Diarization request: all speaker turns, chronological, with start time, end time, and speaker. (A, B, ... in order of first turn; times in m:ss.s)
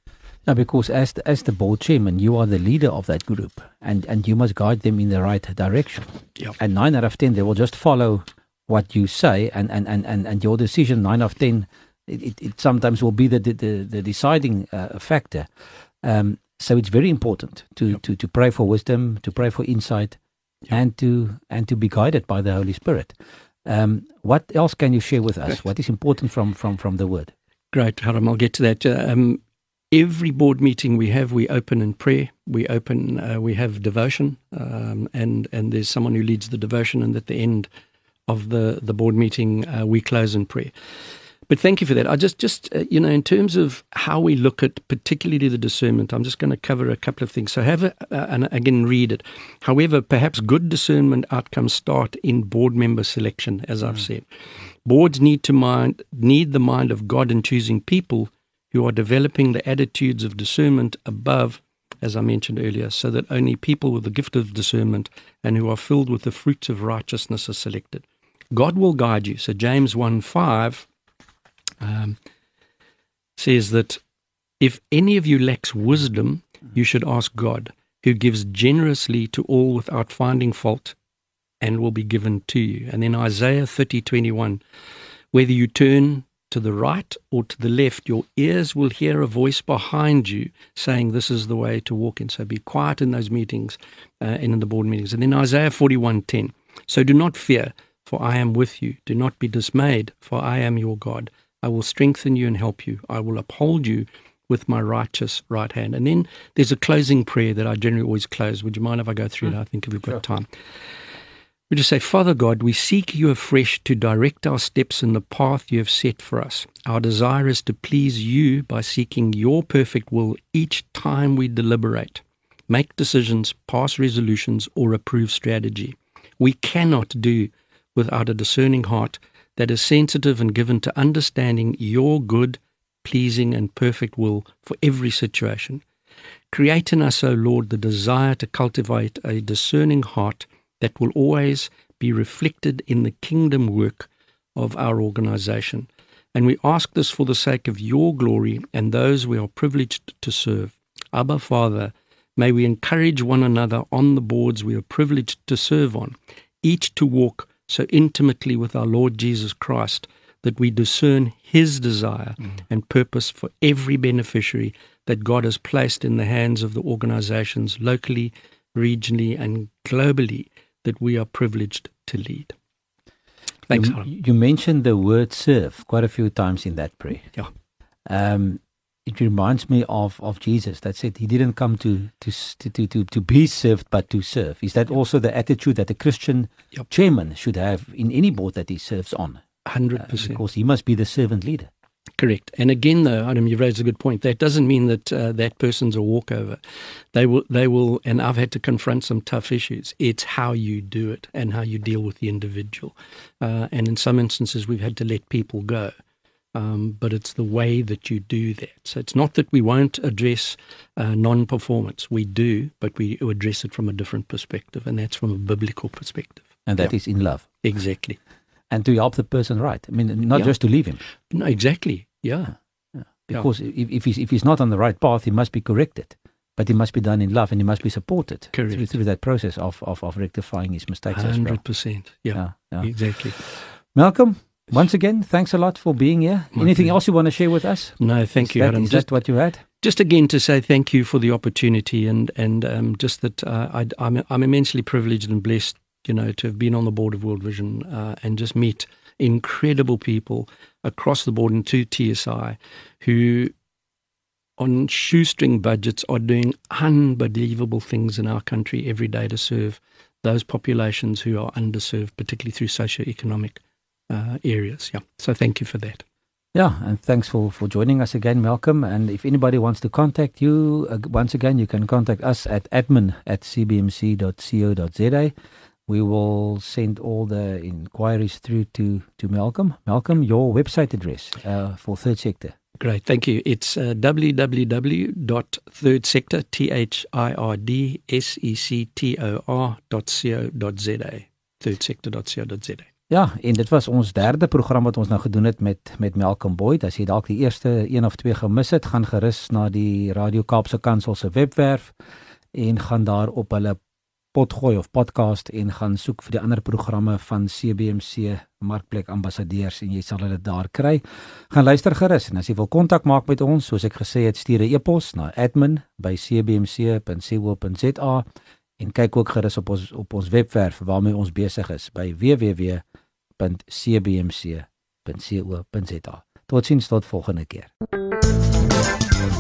0:00.5-0:15.5 A
0:16.0-0:20.2 A
0:20.7-0:23.1 A
0:23.6-0:27.3 A
0:27.7-0:29.4 B
0:29.9-0:37.7 B
0:38.3-0:40.7 B
0:41.5-0:54.3 B
0:54.8-1:10.9 B
1:11.8-1:12.2 B
1:13.4-1:14.0 B
1:14.6-1:21.0 B
1:21.6-1:24.6 B
1:25.3-1:50.5 B
1:51.7-2:15.8 B
2:16.5-2:52.6 B
2:53.7-2:54.0 B
2:53.7-2:57.3 A
2:58.1-3:09.4 A
3:09.6-3:10.4 B
3:10.0-3:11.7 A
3:12.2-3:16.6 B
3:17.1-3:25.9 B
3:26.6-3:36.9 B
3:36.6-3:37.5 A
3:37.6-3:38.2 B
3:38.7-3:41.0 A
3:41.3-3:42.6 B
3:43.2-3:51.6 A
3:48.5-3:48.9 B
3:51.1-3:53.4 B
3:52.4-3:59.6 A
3:56.6-3:57.0 B
3:58.0-3:59.2 B
3:59.8-4:13.5 B
4:14.6-4:26.0 B
4:26.5-4:35.3 A
4:35.9-4:42.6 A
4:42.8-4:52.9 B
4:53.1-5:01.9 A
5:02.5-5:03.8 A
5:04.3-5:18.2 A
5:18.8-5:22.8 A
5:23.4-5:27.7 A